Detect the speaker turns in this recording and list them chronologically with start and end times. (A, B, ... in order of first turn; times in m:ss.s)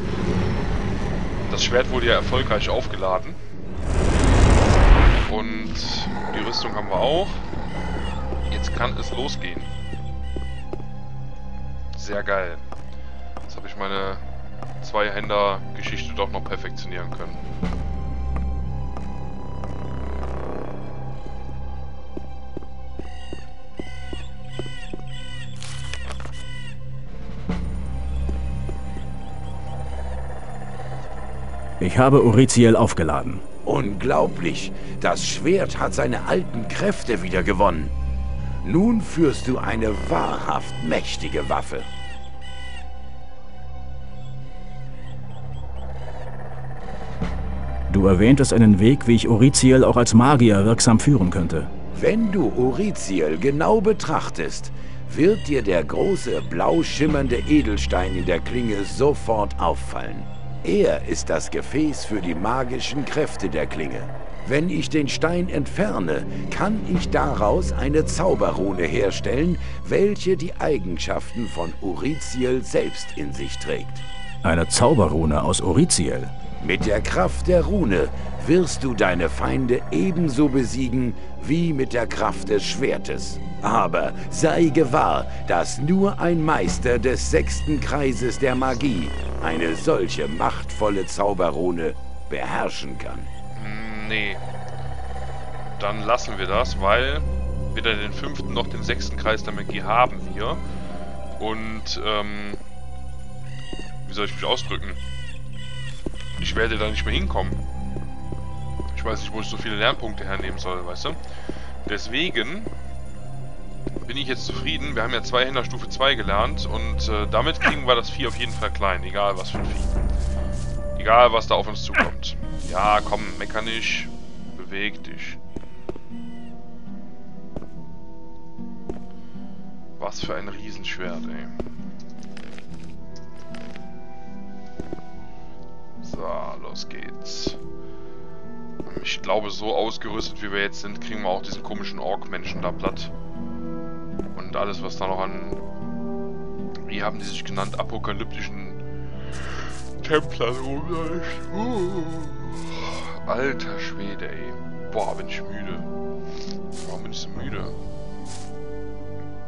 0:01.5-0:03.4 A
0:05.3-0:07.4 A
0:08.5-0:09.7 A
0:11.9-0:12.6 A
0:13.5-0:14.2 A
0:14.8-0:17.4 A
0:31.8-0:33.4 B
0:33.6-0:37.9 C
0:38.6-0:41.9 C
0:47.9-0:51.7 B
0:51.9-1:14.0 C
1:14.4-1:16.3 B
1:16.6-1:33.3 C
1:33.6-1:34.4 A
1:35.8-1:40.6 A
1:41.4-1:42.6 A
1:44.0-1:45.0 A
1:46.4-1:47.6 A
1:48.9-1:51.2 A
1:51.9-1:52.7 A
1:54.0-2:00.0 A
2:01.0-2:05.4 A
2:10.0-2:11.5 A
2:16.0-2:17.6 A
2:18.9-2:23.1 A
2:24.4-2:25.6 A
2:26.9-2:28.8 A
2:30.0-2:35.9 A
2:36.8-2:37.8 A